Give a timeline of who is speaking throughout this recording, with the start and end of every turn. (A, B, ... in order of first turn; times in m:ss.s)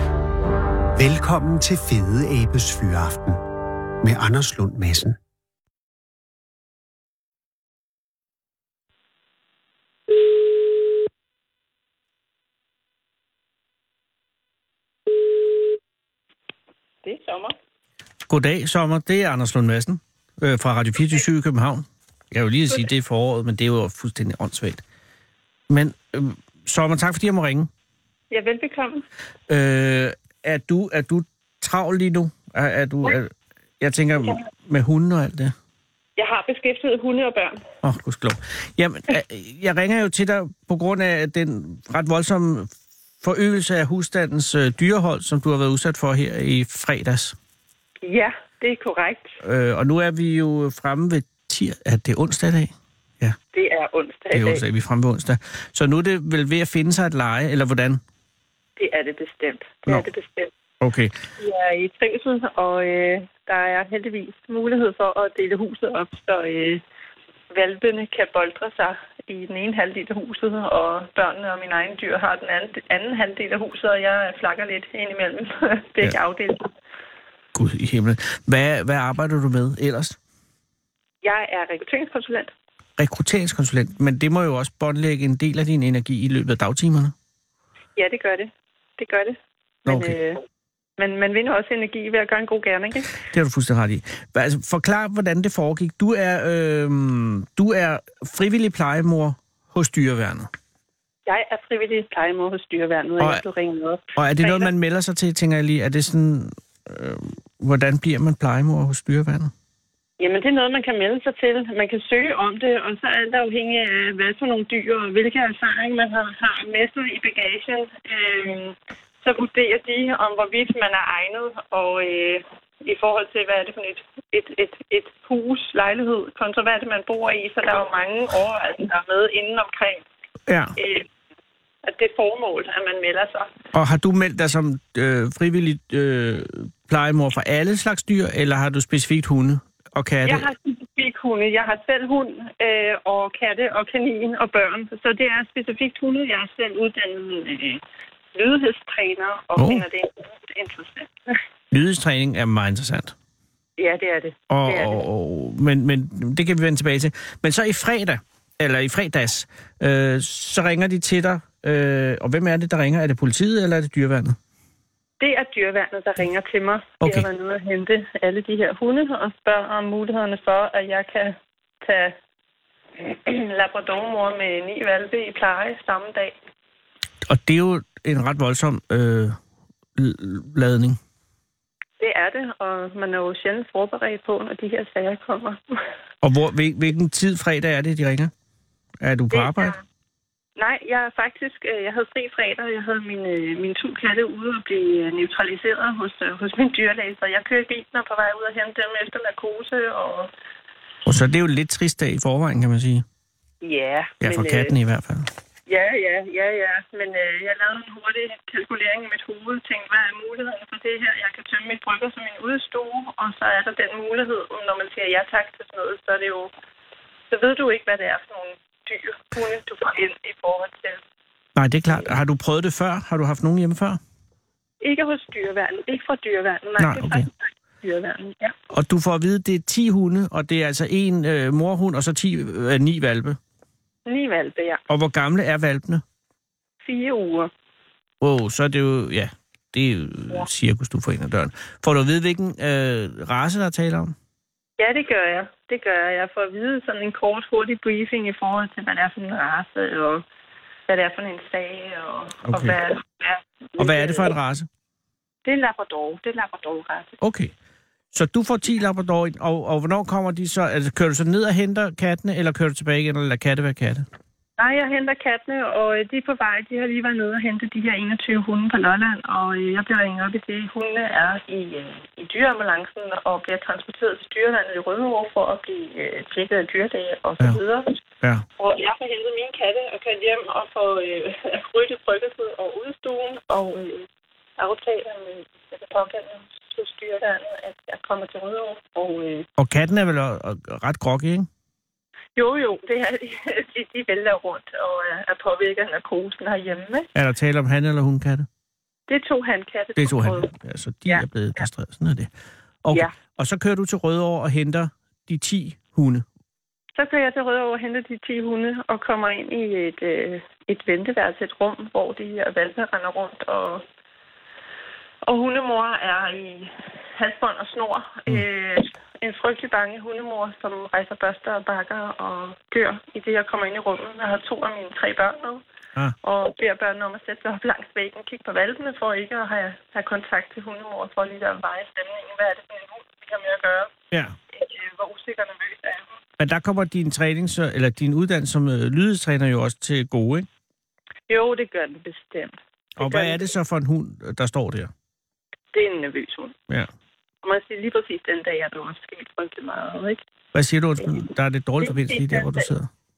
0:01.0-0:03.4 A
0:04.0-0:05.2 A
0:17.0-0:17.5 B
0:18.3-0:24.8 C
0:25.7-0:27.7 C
0:28.3-0:29.0 B
0:29.5-0:35.5 C
0:36.2-0:37.6 B
0:37.8-0:42.7 C
0:43.2-0:47.3 C
0:48.0-0:49.4 B
0:49.4-0:53.4 C
0:53.5-0:54.6 B
0:54.3-0:58.0 C
0:58.8-1:00.5 B
1:00.8-1:01.1 C
1:01.4-1:06.8 B
1:07.5-1:16.7 B
1:17.6-1:20.2 C
1:21.2-1:22.5 B
1:23.0-1:27.1 C
1:28.0-1:30.4 B
1:29.9-1:30.2 C
1:31.0-1:33.2 B
1:33.3-1:40.5 C
1:41.2-1:44.7 B
1:44.2-1:49.5 C
1:50.2-2:10.0 B
2:10.5-2:10.8 C
2:10.8-2:11.1 B
2:11.8-2:13.5 B
2:13.7-2:20.5 C
2:20.2-2:27.8 B
2:28.3-2:31.4 B
2:29.6-2:29.8 C
2:31.7-2:33.1 C
2:33.8-2:35.0 B
2:34.5-2:44.4 C
2:45.2-2:52.2 B
2:47.0-2:47.3 C
2:53.0-2:56.3 B
2:57.2-2:59.4 C
3:00.0-3:01.0 C
3:02.0-3:05.8 B
3:06.2-3:08.3 C
3:09.0-3:09.8 C
3:09.3-3:09.8 B
3:10.6-3:20.3 B
3:21.1-3:23.0 C
3:23.6-3:24.7 B
3:24.2-3:25.3 C
3:25.7-3:36.5 B
3:37.3-3:41.0 B
3:41.6-3:44.0 C
3:44.8-3:48.5 B
3:46.8-3:47.2 C
3:48.7-3:53.4 C
3:54.1-3:54.8 B
3:54.9-3:56.0 C
3:56.8-3:57.5 B
3:58.2-4:04.1 C
4:04.8-4:10.2 B
4:10.9-4:14.3 B
4:12.5-4:12.8 C
4:13.8-4:14.7 C
4:15.4-4:17.1 B
4:17.2-4:17.5 C
4:18.1-4:24.1 C
4:24.6-4:38.0 B
4:38.6-4:44.1 B
4:44.6-4:49.5 B
4:49.6-4:51.5 C
4:52.4-4:57.1 B
4:57.2-4:58.5 C
4:59.1-5:00.5 B
5:00.0-5:02.3 C
5:01.1-5:01.6 B
5:02.8-5:06.2 C
5:07.0-5:13.8 B
5:15.2-5:25.6 B
5:26.2-5:33.9 B
5:34.5-5:36.2 B
5:36.4-5:40.5 C
5:41.3-5:43.5 B
5:43.0-5:44.9 C
5:45.7-5:46.6 B
5:47.4-5:50.2 B
5:50.5-5:52.9 C
5:51.0-5:51.3 B
5:51.8-5:52.7 B